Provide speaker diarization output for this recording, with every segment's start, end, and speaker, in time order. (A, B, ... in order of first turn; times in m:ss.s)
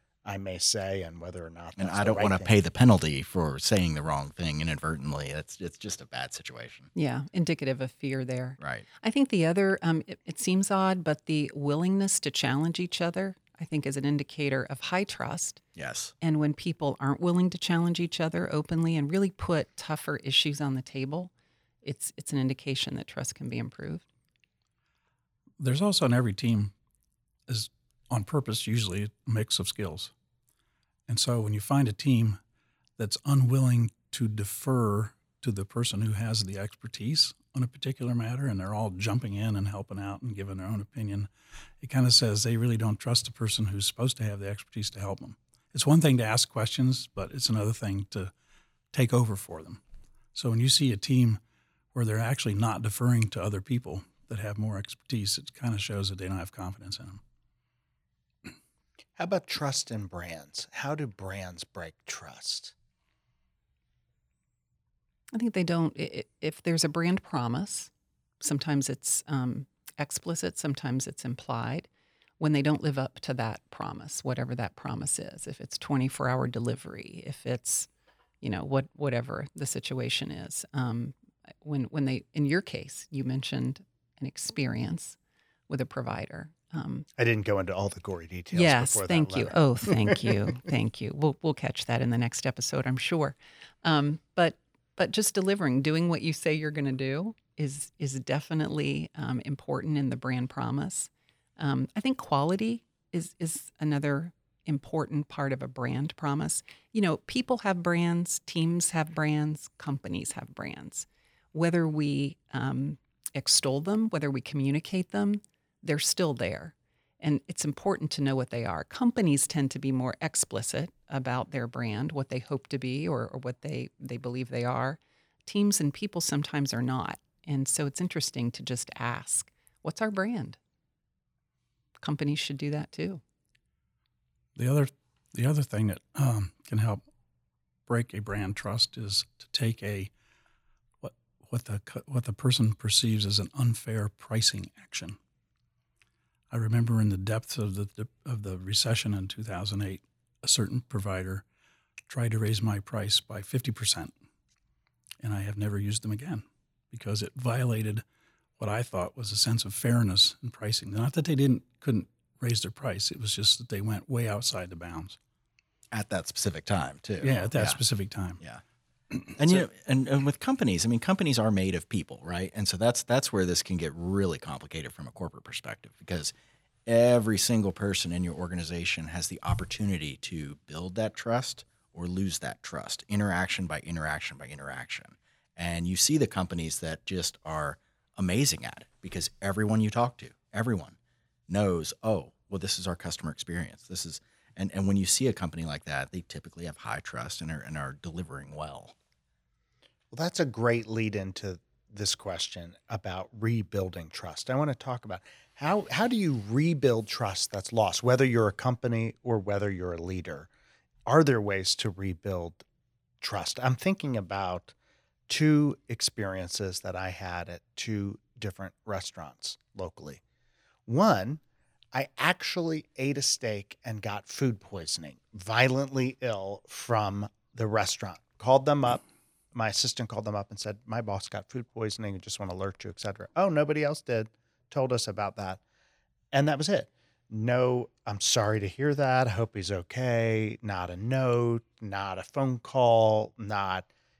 0:00.2-0:02.6 A
0:01.8-0:06.9 B
0:06.9-0:15.6 C
0:08.6-0:08.8 B
0:15.8-0:16.1 B
0:16.2-0:21.3 C
0:21.8-0:24.0 C
0:25.6-0:26.7 D
0:27.5-0:30.1 D
0:31.1-0:32.4 D
0:33.0-0:41.3 D
0:41.8-0:48.3 D
0:48.9-0:49.8 D
0:50.3-0:51.4 D
0:51.9-0:57.2 D
0:59.2-1:02.7 A
1:05.3-1:11.9 C
1:12.4-1:17.9 C
1:18.4-1:25.2 C
1:25.7-1:27.1 C
1:27.2-1:30.2 A
1:28.5-2:10.6 C
2:12.0-2:13.2 C
2:14.6-2:17.0 D
2:17.9-2:20.1 D
2:21.0-2:25.2 D
2:26.5-2:31.4 D
2:32.1-2:34.1 D
2:35.2-2:38.0 D
2:38.6-2:45.2 D
2:45.9-2:47.8 B
2:47.2-2:48.4 D
2:49.1-2:49.6 D
2:49.3-2:56.3 B
2:56.8-3:11.0 B
3:11.5-3:18.9 B
3:20.1-3:30.5 A
3:31.1-3:32.6 A
3:33.2-3:34.7 A
3:35.3-3:40.2 A
3:40.9-3:41.4 A
3:41.9-3:55.6 A
3:56.3-4:03.9 A